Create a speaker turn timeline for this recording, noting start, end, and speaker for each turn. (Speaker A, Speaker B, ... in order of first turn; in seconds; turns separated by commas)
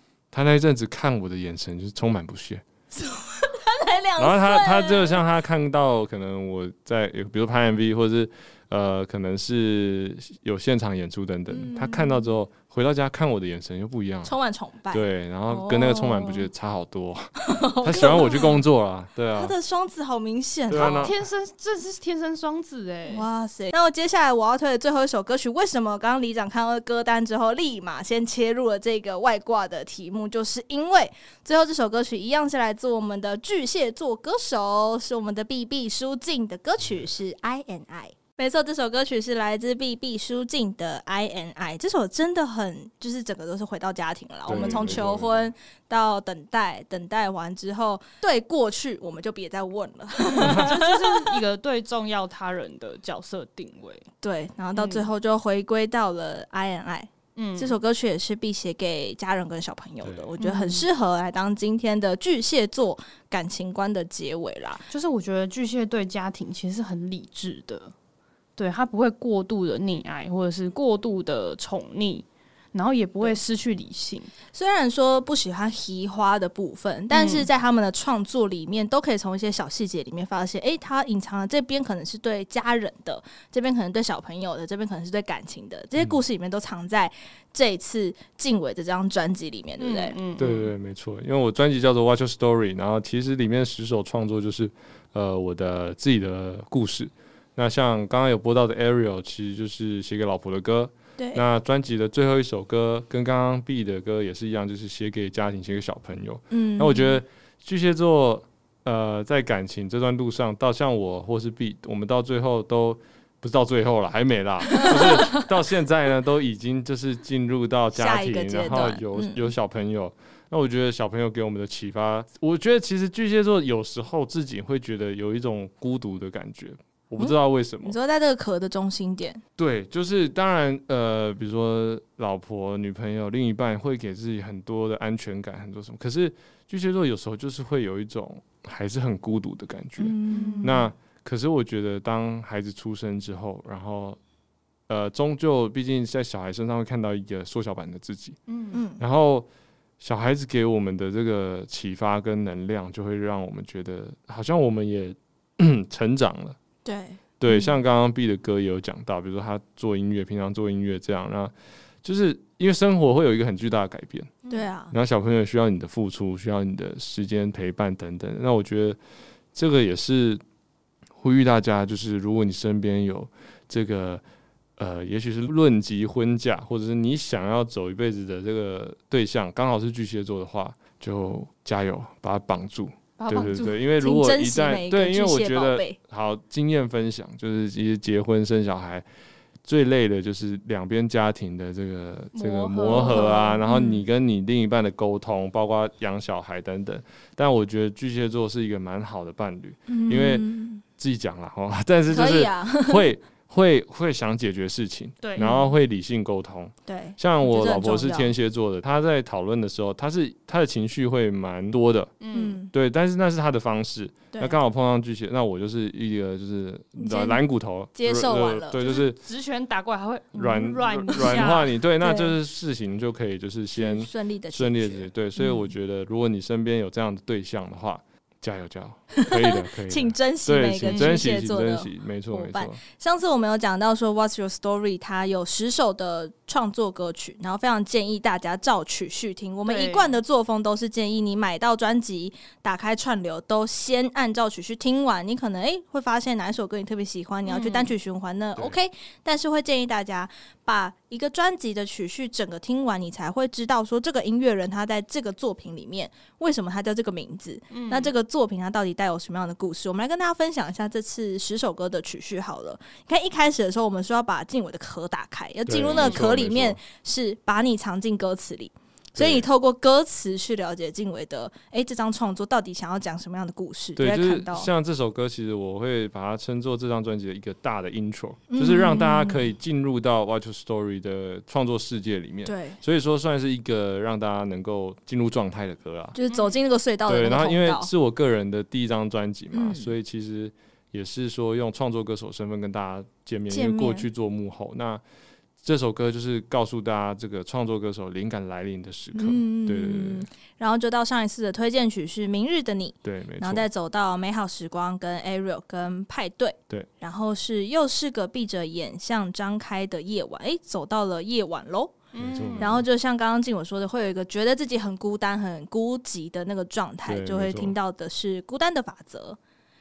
Speaker A: 0.3-2.6, Speaker B: 2.9-5.2, Speaker A: 4.2-14.3, Speaker B: 11.5-12.3, Speaker B: 14.2-16.5, Speaker A: 14.9-17.3, Speaker B: 17.4-18.6, Speaker A: 17.8-19.5, Speaker B: 19.3-21.1, Speaker A: 20.7-21.1, Speaker C: 20.8-23.2, Speaker B: 23.1-51.3, Speaker A: 44.5-45.4, Speaker C: 44.5-45.0, Speaker C: 50.2-54.0, Speaker B: 54.2-64.8, Speaker C: 54.7-55.1, Speaker C: 57.4-57.7, Speaker C: 60.4-60.9, Speaker C: 64.9-67.9, Speaker C: 68.6-74.3, Speaker B: 74.5-90.2, Speaker C: 77.1-77.5, Speaker C: 89.8-90.7, Speaker A: 90.4-128.0, Speaker B: 101.2-101.4, Speaker B: 106.5-107.2, Speaker B: 114.7-115.4, Speaker B: 117.9-119.4, Speaker B: 127.2-129.4, Speaker A: 129.6-144.2, Speaker B: 140.0-140.8, Speaker C: 140.3-140.9, Speaker A: 144.9-148.4, Speaker C: 148.5-148.8, Speaker B: 148.7-149.0, Speaker A: 149.0-149.5, Speaker A: 150.0-156.6, Speaker B: 156.8-157.8, Speaker A: 157.4-161.5, Speaker A: 162.0-169.0, Speaker B: 164.5-164.9, Speaker A: 169.5-170.4, Speaker A: 171.2-174.2, Speaker A: 174.8-189.0, Speaker C: 183.2-183.8, Speaker B: 183.9-186.0, Speaker A: 189.6-200.4, Speaker C: 192.3-193.6, Speaker B: 193.0-194.0, Speaker B: 199.9-200.8, Speaker A: 201.0-212.2, Speaker B: 202.1-203.1, Speaker C: 205.2-205.6, Speaker B: 205.4-205.7, Speaker B: 206.9-208.3, Speaker C: 212.2-212.6, Speaker B: 212.3-212.7, Speaker A: 212.7-219.2, Speaker B: 214.3-214.6, Speaker B: 217.0-217.4, Speaker B: 217.9-219.0, Speaker C: 218.8-221.7, Speaker A: 220.3-232.8, Speaker B: 221.1-222.3, Speaker B: 223.7-225.6, Speaker B: 229.2-274.7, Speaker C: 230.9-231.2, Speaker C: 239.7-240.2, Speaker C: 247.4-247.9, Speaker C: 257.7-258.1, Speaker A: 265.7-266.8, Speaker A: 269.1-269.5, Speaker A: 273.9-286.2, Speaker B: 278.5-279.5, Speaker B: 282.4-282.8, Speaker B: 286.1-287.9, Speaker C: 286.3-286.5, Speaker A: 287.1-295.0, Speaker B: 289.5-289.9, Speaker B: 293.5-294.1, Speaker A: 295.6-300.3, Speaker B: 299.1-312.0, Speaker A: 303.0-303.6, Speaker C: 312.1-312.8, Speaker A: 312.2-312.9, Speaker B: 312.6-319.4, Speaker A: 317.0-317.8